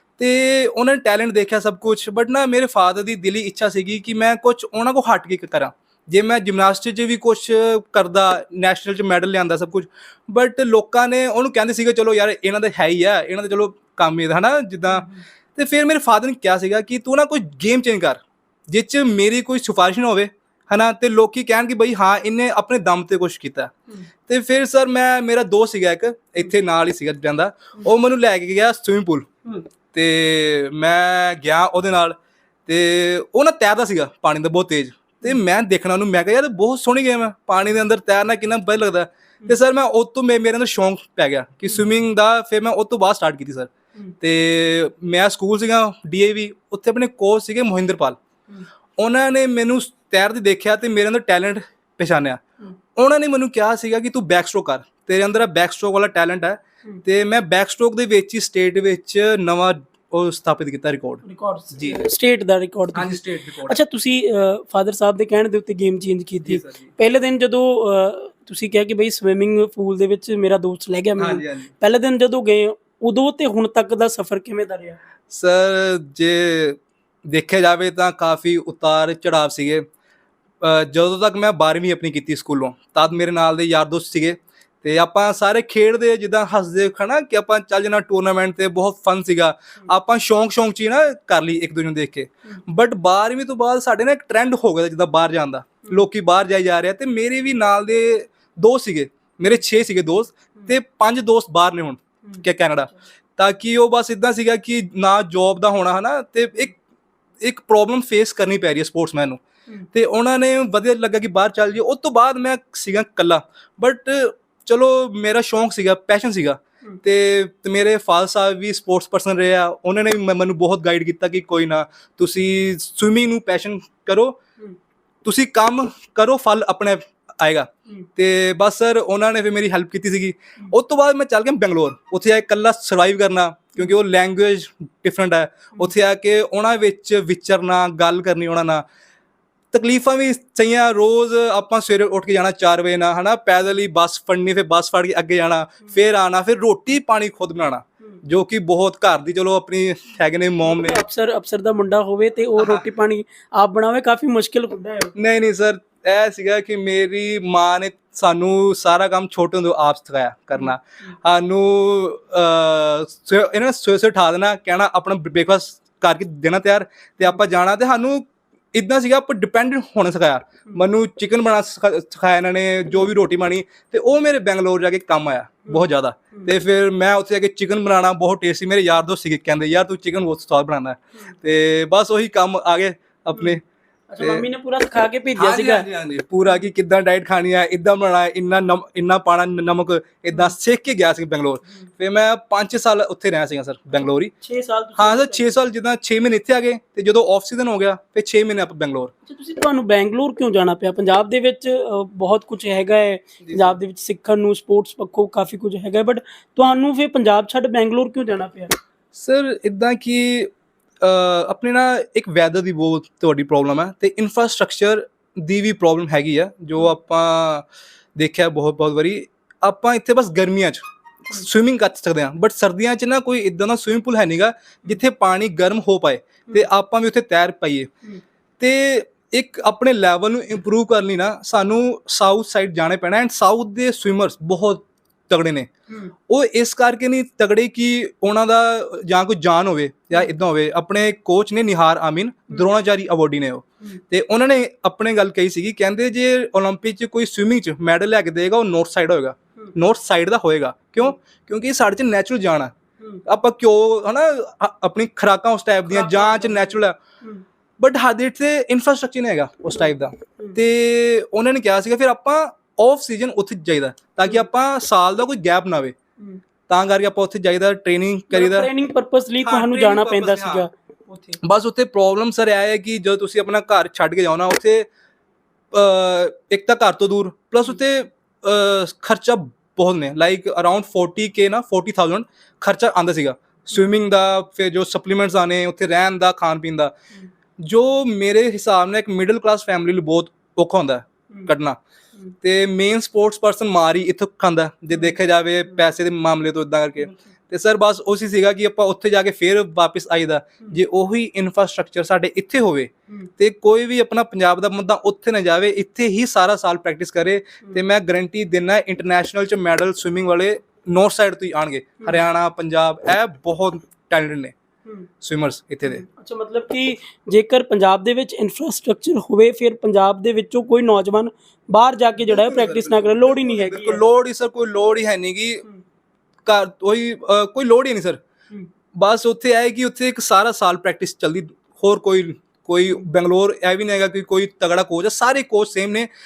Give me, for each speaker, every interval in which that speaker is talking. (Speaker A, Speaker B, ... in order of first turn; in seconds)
Speaker A: 0.2-23.7, 24.3-29.3, 29.9-32.1, 32.7-48.2, 49.0-52.4, 53.0-61.2, 61.7-62.0, 62.9-63.8, 66.4-66.9, 71.2-71.7, 75.3-79.8, 80.6-106.8, 107.4-109.4, 109.9-124.4, 125.2-138.8, 139.7-151.0, 152.6-152.8, 155.2-183.6, 184.2-184.5, 185.4-194.3, 195.0-199.1, 203.4-203.8, 209.1-210.5, 211.0-227.9, 228.6-235.7, 236.3-252.7, 253.2-257.0, 257.8-265.9, 266.7-268.7, 269.4-270.6, 271.4-274.9, 275.7-286.9, 287.6-291.8, 292.4-314.5, 315.2-316.0, 322.2-325.6, 326.4-328.2, 328.9-336.1
Speaker B: 14.9-15.2, 61.2-75.0, 150.6-155.1, 175.7-176.5, 184.1-185.8, 194.4-195.5, 199.2-208.7, 255.9-257.4, 268.3-271.4, 315.9-324.0